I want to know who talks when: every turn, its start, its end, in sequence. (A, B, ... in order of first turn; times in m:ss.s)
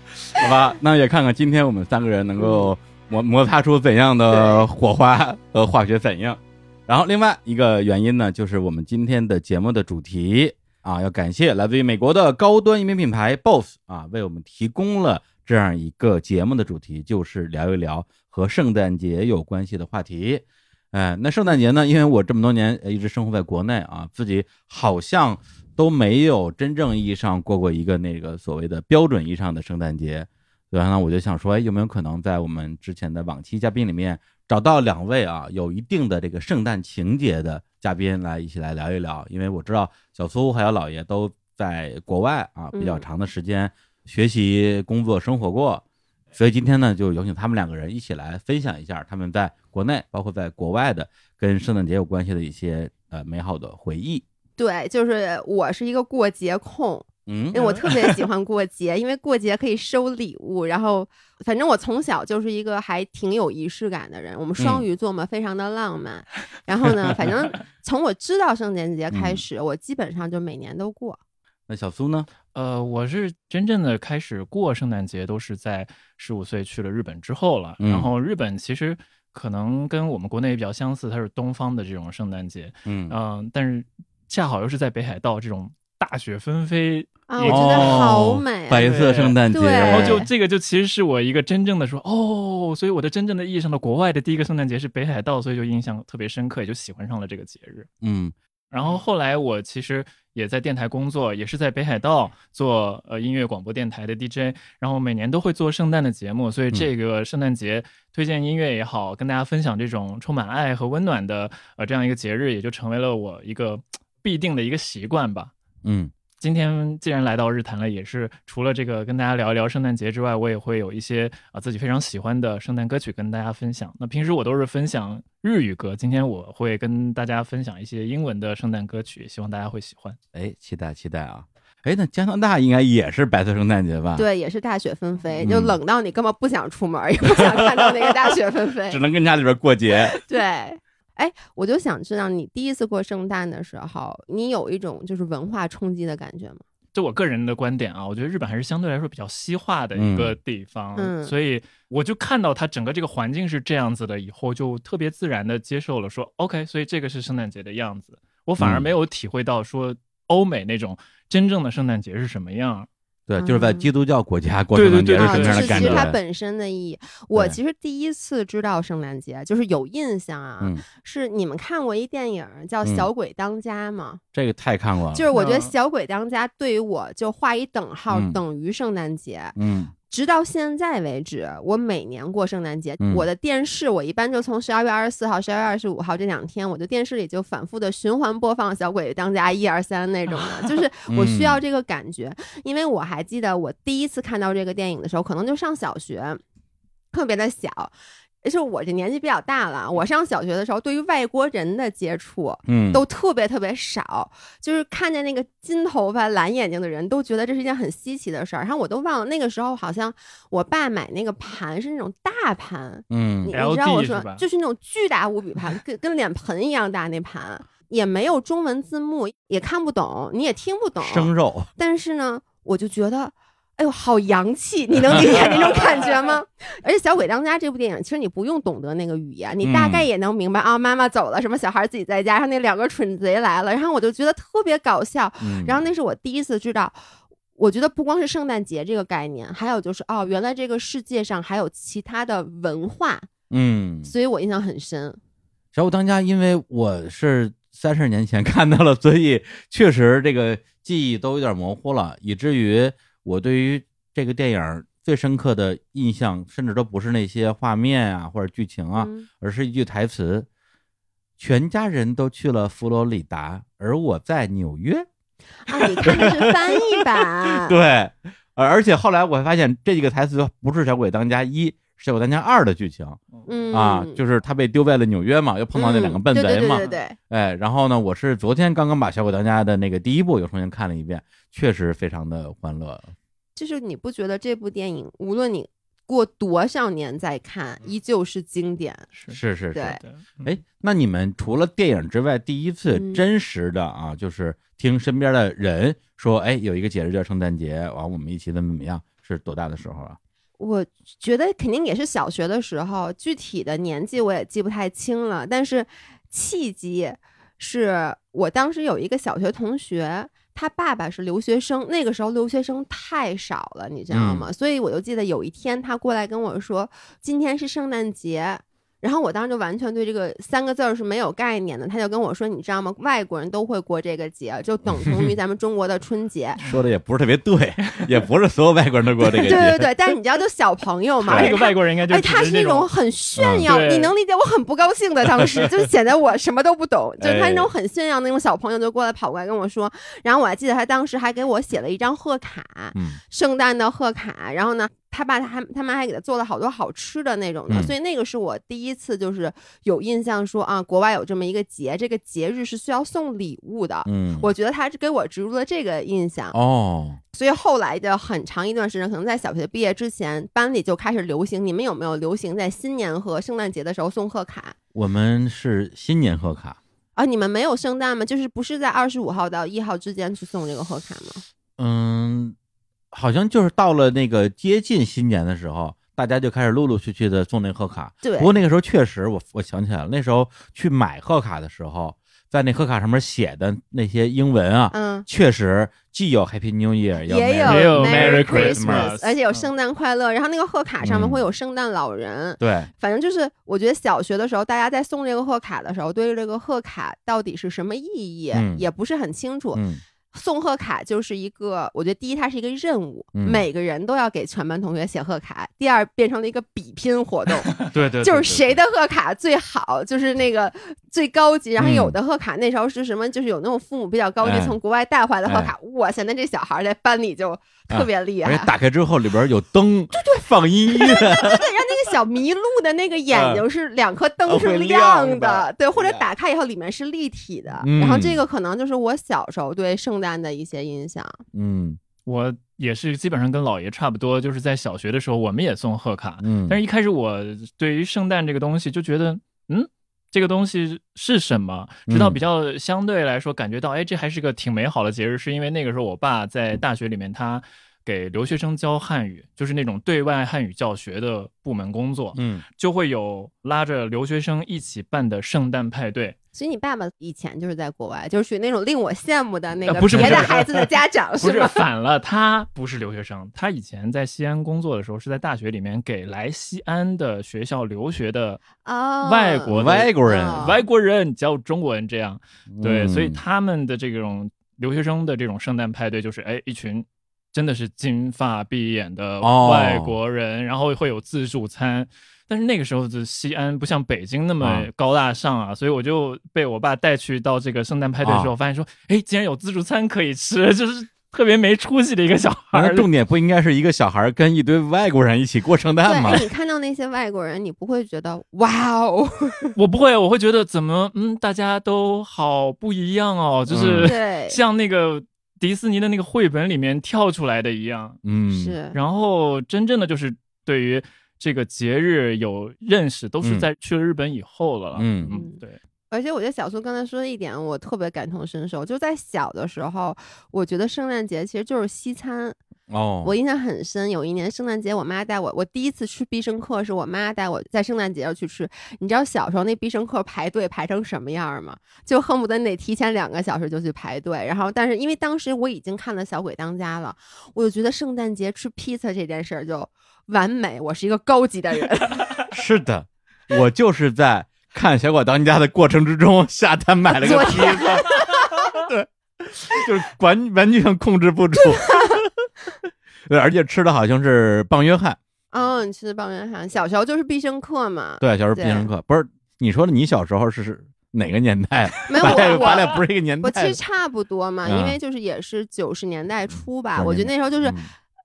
0:00.3-0:54.2 A
0:02.4-0:02.7 B
0:04.3-0:04.6 B
0:42.7-0:43.0 B
0:54.6-1:11.2 B
0:57.3-0:58.1 A
1:04.6-1:04.8 A
1:09.1-1:09.4 A
1:11.7-1:12.3 A
1:12.5-1:28.1 C
1:17.8-1:18.1 A
1:22.8-1:23.1 A
1:27.3-1:28.9 B
1:27.4-1:30.2 A
1:28.8-1:37.9 C
1:29.5-1:30.3 B
1:38.0-1:38.3 A
1:38.7-1:55.5 C
1:55.8-1:56.1 A
1:56.4-2:10.2 C
2:10.3-2:14.2 A
2:14.1-2:19.0 B
2:15.4-2:15.8 A
2:17.4-2:18.0 A
2:18.9-2:20.1 A
2:20.1-2:26.6 B
2:26.9-2:42.9 C
2:29.9-2:30.4 A
2:31.0-2:31.3 B
2:38.6-2:38.9 A
2:43.3-2:46.2 A
2:43.4-2:43.9 B
2:44.7-2:46.0 C
2:45.2-2:54.2 B
2:54.3-2:55.2 A
2:55.1-2:59.6 B
2:55.3-2:55.7 C
2:58.1-2:58.4 A
2:59.6-2:59.9 A
3:00.1-3:16.4 B
3:03.0-3:03.2 A
3:11.1-3:11.6 A
3:17.1-3:17.9 B
3:18.4-3:57.0 B
3:22.7-3:23.0 A
3:33.1-3:33.5 A
3:33.5-3:34.4 C
3:41.0-3:41.7 A
3:49.6-3:50.0 A
3:55.4-3:55.8 A
3:57.6-4:03.3 B
4:03.5-4:04.1 A
4:04.0-4:05.2 B
4:05.7-4:20.5 A
4:19.0-4:19.3 B
4:21.4-4:25.1 A
4:25.6-4:27.8 B
4:25.8-4:33.2 A
4:33.5-4:34.2 B
4:33.7-4:43.1 A
4:35.7-4:37.2 B
4:43.6-4:49.1 B
4:49.1-4:49.4 C
4:49.3-5:00.2 A
4:50.0-4:50.5 C
4:52.9-4:53.2 B
5:00.6-5:26.6 B
5:14.1-5:14.5 A
5:25.0-5:25.3 A
5:26.6-5:29.9 A
5:29.4-5:56.6 B
5:31.2-5:31.5 A
5:31.3-5:32.9 C
5:33.4-5:33.7 A
5:33.6-5:34.1 C
5:37.2-5:37.7 A
5:42.9-5:43.2 A
5:54.0-5:54.5 A
5:56.5-5:57.2 A
5:57.3-6:04.8 B
6:04.9-6:06.8 A
6:07.2-6:11.4 B
6:11.8-6:12.6 A
6:13.1-6:29.1 A
6:18.2-6:18.5 B
6:24.9-6:25.3 B
6:27.2-6:39.8 B
6:27.6-6:29.7 C
6:31.0-6:31.4 A
6:32.6-6:32.9 A
6:38.5-6:38.8 A
6:39.7-6:40.0 A
6:40.3-6:58.7 B
6:43.3-6:43.6 A
6:47.9-6:48.8 A
6:51.8-6:52.1 A
6:54.4-6:54.8 A
6:55.4-6:55.7 A
6:57.9-7:01.6 A
7:00.2-7:11.4 B
7:03.3-7:03.6 A
7:04.4-7:06.3 A
7:07.8-7:08.4 A
7:11.5-7:12.0 A
7:12.2-7:36.4 C
7:16.4-7:16.8 A
7:22.1-7:22.4 A
7:32.3-7:32.6 A
7:36.5-7:41.8 B
7:39.8-7:40.8 C
7:40.0-7:40.5 A
7:41.4-7:48.6 C
7:48.8-7:50.8 B
7:49.2-8:13.1 C
7:49.7-7:50.8 A
7:52.7-7:53.4 A
7:59.4-8:00.1 A
8:04.6-8:04.9 A
8:08.2-8:08.5 A
8:12.7-8:16.4 A
8:16.0-8:19.7 B
8:19.8-8:28.2 C
8:23.7-8:24.1 A
8:24.0-8:24.6 B
8:28.2-8:28.7 A
8:28.5-8:29.0 B
8:28.9-8:35.8 C
8:33.4-8:33.7 A
8:35.0-8:35.3 A
8:35.3-8:35.6 B
8:36.1-8:42.6 B
8:42.9-8:43.3 A
8:43.2-9:02.3 B
9:02.5-9:12.3 A
9:07.2-9:08.3 B
9:11.7-9:12.2 B
9:13.3-9:15.2 A
9:15.5-9:18.9 B
9:18.2-9:23.8 A
9:22.0-9:27.8 B
9:24.6-9:25.0 A
9:27.0-9:27.9 A